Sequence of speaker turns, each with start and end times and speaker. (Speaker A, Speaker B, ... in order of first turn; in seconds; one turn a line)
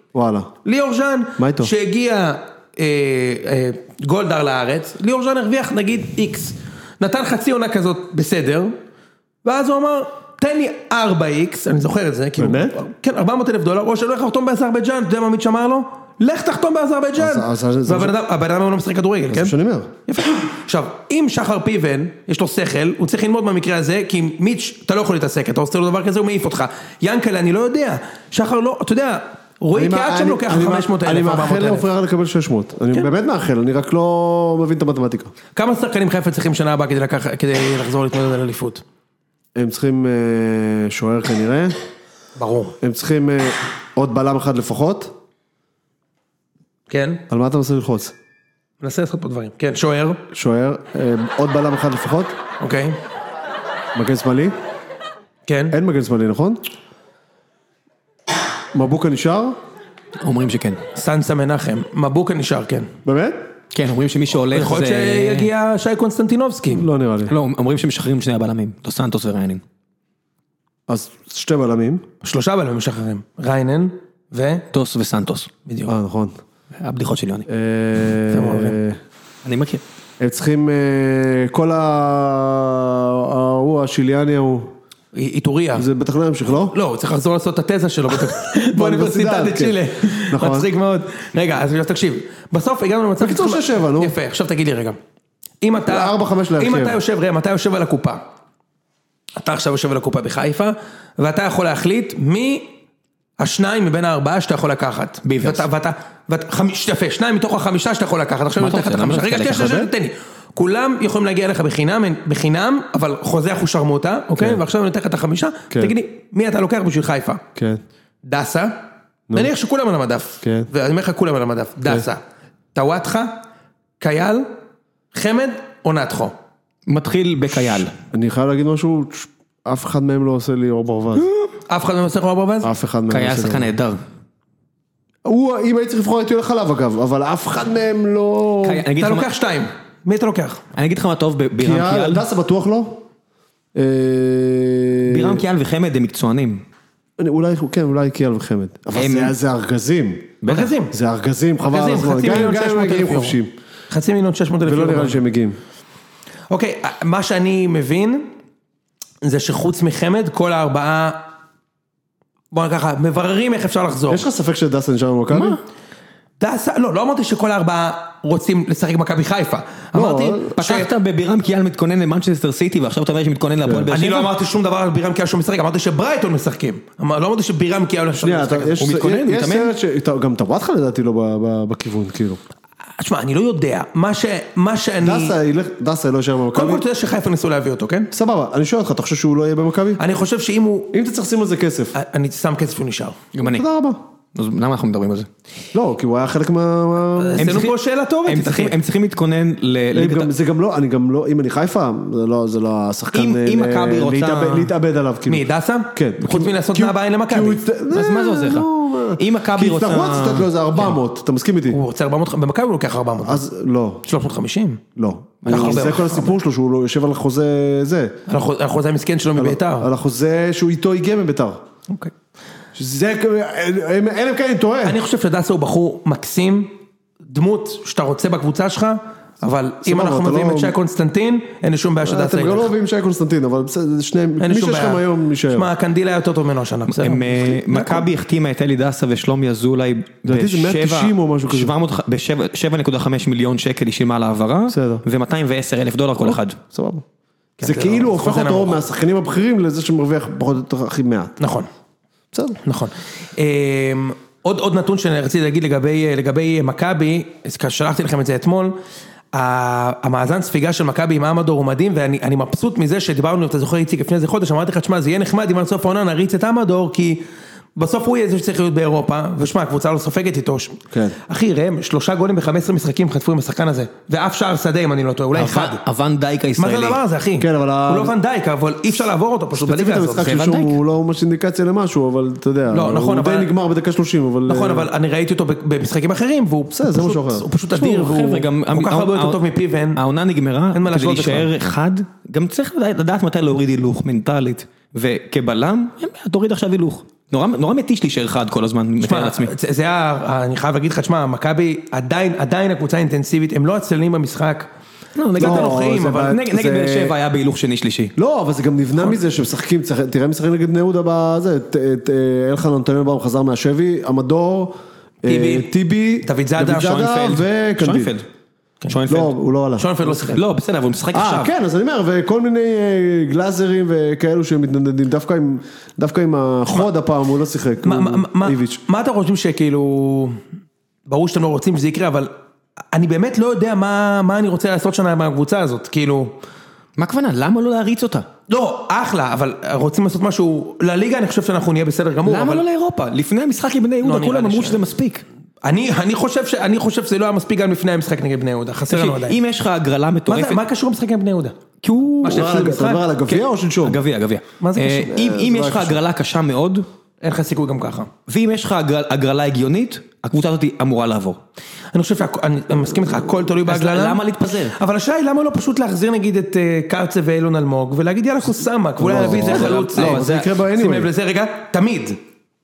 Speaker A: 0.1-0.5
Speaker B: 0.7-8.7
Speaker A: 1.4-1.7
Speaker B: 9.4-19.6
Speaker A: 12.4-12.8
Speaker A: 17.2-18.1
Speaker A: 19.3-19.9
Speaker B: 20.1-31.9
Speaker A: 29.7-35.3
Speaker B: 35.6-38.8
Speaker A: 39.5-41.7
Speaker B: 42.4-42.8
Speaker A: 42.8-45.1
Speaker B: 46.9-47.2
Speaker A: 47.3-48.1
Speaker B: 48.8-50.2
Speaker A: 50.3-52.3
Speaker B: 52.6-53.0
Speaker A: 53.9-54.5
Speaker B: 55.5-55.8
Speaker A: 55.7-56.6
Speaker A: 58.7-59.6
Speaker C: 60.2-60.8
Speaker B: 61.0-62.9
Speaker A: 63.0-63.4
Speaker C: 63.7-65.5
Speaker B: 64.5-66.9
Speaker A: 66.7-67.3
Speaker C: 67.3-69.6
Speaker A: 70.9-72.0
Speaker B: 72.2-74.7
Speaker C: 74.7-75.5
Speaker B: 75.7-75.9
Speaker A: 75.9-76.4
Speaker C: 76.8-77.5
Speaker A: 77.5-79.0
Speaker B: 78.3-78.8
Speaker C: 79.5-79.8
Speaker A: 80.2-84.7
Speaker B: 85.1-85.9
Speaker A: 85.8-86.7
Speaker B: 86.7-95.0
Speaker A: 88.3-90.7
Speaker A: 93.2-94.2
Speaker B: 95.6-98.2
Speaker A: 95.8-97.0
Speaker B: 99.4-102.7
Speaker B: 103.4-117.4
Speaker C: 105.2-105.7
Speaker C: 108.6-109.9
Speaker B: 118.2-118.7
Speaker B: 119.3-122.2
Speaker A: 120.4-120.7
Speaker B: 122.7-123.4
Speaker B: 124.0-124.5
Speaker B: 125.1-126.3
Speaker C: 126.9-127.9
Speaker A: 128.1-131.3
Speaker C: 131.2-131.5
Speaker B: 131.7-132.7
Speaker A: 132.6-133.7
Speaker C: 133.1-134.0
Speaker A: 135.2-138.9
Speaker C: 138.6-139.3
Speaker B: 139.0-140.6
Speaker C: 140.7-142.2
Speaker A: 141.6-143.0
Speaker A: 143.8-145.4
Speaker C: 145.1-146.6
Speaker A: 147.2-150.4
Speaker C: 149.0-149.3
Speaker C: 150.4-150.8
Speaker B: 150.5-150.9
Speaker A: 150.9-153.5
Speaker B: 151.7-153.4
Speaker B: 153.9-155.2
Speaker A: 154.7-155.6
Speaker B: 156.5-158.3
Speaker B: 159.2-161.2
Speaker B: 162.5-164.3
Speaker A: 164.1-165.6
Speaker C: 165.3-165.6
Speaker B: 166.4-170.9
Speaker A: 169.9-170.6
Speaker C: 170.6-174.3
Speaker A: 173.6-173.9
Speaker B: 173.9-178.8
Speaker A: 178.2-182.4
Speaker C: 178.8-179.7
Speaker B: 183.0-185.3
Speaker A: 185.0-186.8
Speaker B: 186.5-188.1
Speaker A: 188.1-190.0
Speaker B: 190.0-190.9
Speaker A: 190.9-191.9
Speaker B: 191.9-193.2
Speaker C: 193.3-193.7
Speaker A: 193.4-194.0
Speaker C: 194.3-195.3
Speaker A: 195.7-197.6
Speaker B: 197.2-198.8
Speaker C: 197.4-200.3
Speaker A: 199.9-211.8
Speaker C: 203.1-204.7
Speaker B: 205.3-207.6
Speaker C: 207.9-210.9
Speaker B: 211.7-213.4
Speaker A: 213.2-214.0
Speaker B: 214.0-214.8
Speaker A: 214.9-218.1
Speaker C: 215.4-216.0
Speaker B: 215.4-216.4
Speaker B: 218.3-219.9
Speaker A: 219.4-221.6
Speaker A: 222.8-225.0
Speaker B: 224.8-226.7
Speaker B: 227.3-232.7
Speaker A: 229.8-230.8
Speaker A: 232.0-235.7
Speaker B: 234.4-238.1
Speaker C: 236.9-246.6
Speaker A: 240.3-241.7
Speaker A: 244.7-245.0
Speaker A: 246.7-247.0
Speaker B: 247.6-248.8
Speaker A: 247.6-251.4
Speaker B: 251.4-251.7
Speaker A: 252.3-252.6
Speaker B: 252.6-258.8
Speaker B: 259.3-267.2
Speaker B: 267.8-275.8
Speaker C: 275.3-277.0
Speaker B: 276.6-280.3
Speaker A: 277.4-278.1
Speaker A: 279.6-284.9
Speaker C: 280.2-280.8
Speaker B: 282.7-283.5
Speaker B: 284.5-290.0
Speaker A: 286.7-287.5
Speaker C: 287.7-299.5
Speaker B: 290.7-291.5
Speaker B: 299.0-304.7
Speaker C: 305.2-308.1
Speaker B: 305.4-306.3
Speaker A: 305.4-307.2
Speaker A: 308.2-318.1
Speaker B: 315.3-315.7
Speaker B: 316.2-317.1
Speaker C: 316.6-318.2
Speaker B: 318.8-319.1
Speaker C: 318.9-319.3
Speaker A: 319.1-320.4
Speaker B: 319.8-320.4
Speaker C: 320.3-321.5
Speaker A: 321.1-328.8
Speaker B: 327.8-330.4
Speaker B: 331.1-332.3
Speaker B: 332.9-336.3
Speaker C: 337.0-338.3
Speaker B: 338.5-342.6
Speaker C: 342.3-345.2
Speaker B: 344.0-344.8
Speaker B: 345.6-349.4
Speaker C: 348.9-350.6
Speaker B: 350.3-351.6
Speaker C: 351.8-352.7
Speaker B: 352.2-353.0
Speaker A: 352.2-354.0
Speaker C: 353.3-356.9
Speaker B: 354.6-355.1
Speaker A: 355.0-356.0
Speaker B: 357.2-358.1
Speaker C: 358.3-361.4
Speaker B: 361.9-364.2
Speaker C: 363.6-364.8
Speaker B: 364.7-372.2
Speaker A: 369.0-371.1
Speaker C: 369.1-370.5